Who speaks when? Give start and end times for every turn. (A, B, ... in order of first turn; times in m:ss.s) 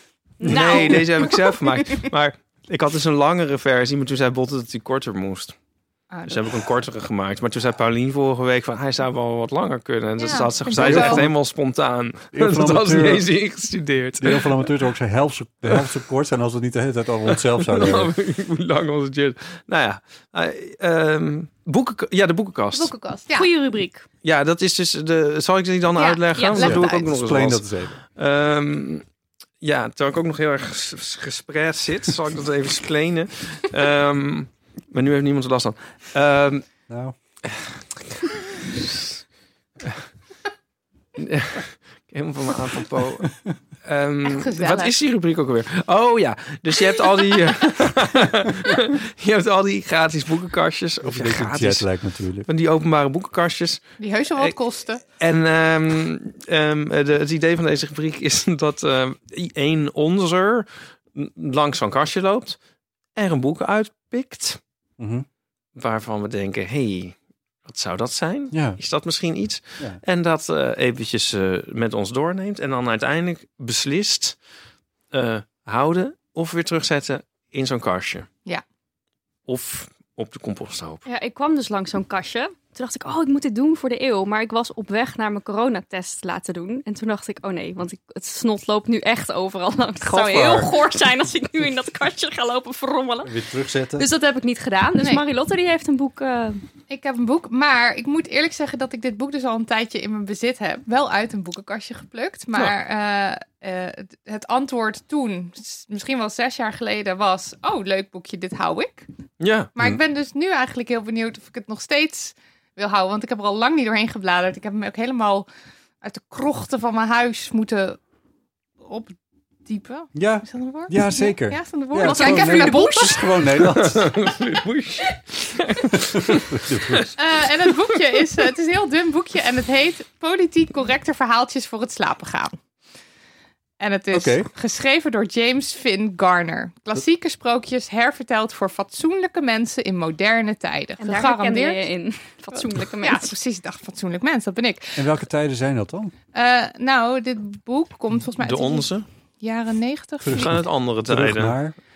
0:00.4-0:01.4 A
0:00.4-0:05.6 B
0:00.4-0:01.4 C
0:06.1-0:06.4 C
0:06.3-0:14.7 B
0:10.2-0:11.2 C
0:10.8-0:11.4 D
0:12.3-0:13.3 D
0:14.2-0:18.1 D
0:17.3-0:22.9 B
0:22.7-0:23.5 C
0:23.3-0:24.0 A
0:24.2-0:27.6 B
0:25.9-0:26.2 C
0:26.4-0:26.8 A
0:26.6-0:28.0 D
0:28.2-0:29.0 B
0:29.6-0:36.6 B
0:36.9-0:37.2 D
0:37.5-0:39.1 B
0:41.2-0:43.3 B
0:43.8-0:51.9 B
0:44.2-0:44.9 C
0:51.0-0:52.5 D
0:52.4-0:54.5 B
0:54.0-0:55.0 C
0:55.1-1:02.6 B
1:03.1-1:04.6 B
1:05.0-1:05.2 D
1:05.8-1:14.4 B
1:08.5-1:08.8 D
1:15.1-1:18.3 B
1:19.5-1:21.0 B
1:21.0-1:33.3 A
1:30.0-1:30.7 D
1:33.2-1:34.0 D
1:34.0-1:36.6 A
1:35.0-1:35.2 C
1:36.9-1:49.1 C
1:49.4-1:49.7 B
1:49.7-1:55.5 C
1:56.0-1:58.0 C
1:58.8-2:03.2 C
2:00.1-2:04.1 D
2:02.0-2:03.2 A
2:03.6-2:07.0 B
2:05.9-2:07.1 D
2:07.1-2:12.6 C
2:13.8-2:21.8 C
2:14.1-2:14.5 D
2:21.0-2:23.4 A
2:22.5-2:25.2 C
2:25.0-2:26.1 D
2:26.3-2:28.9 C
2:28.4-2:29.0 B
2:29.4-2:30.6 C
2:30.2-2:31.7 D
2:30.3-2:31.6 B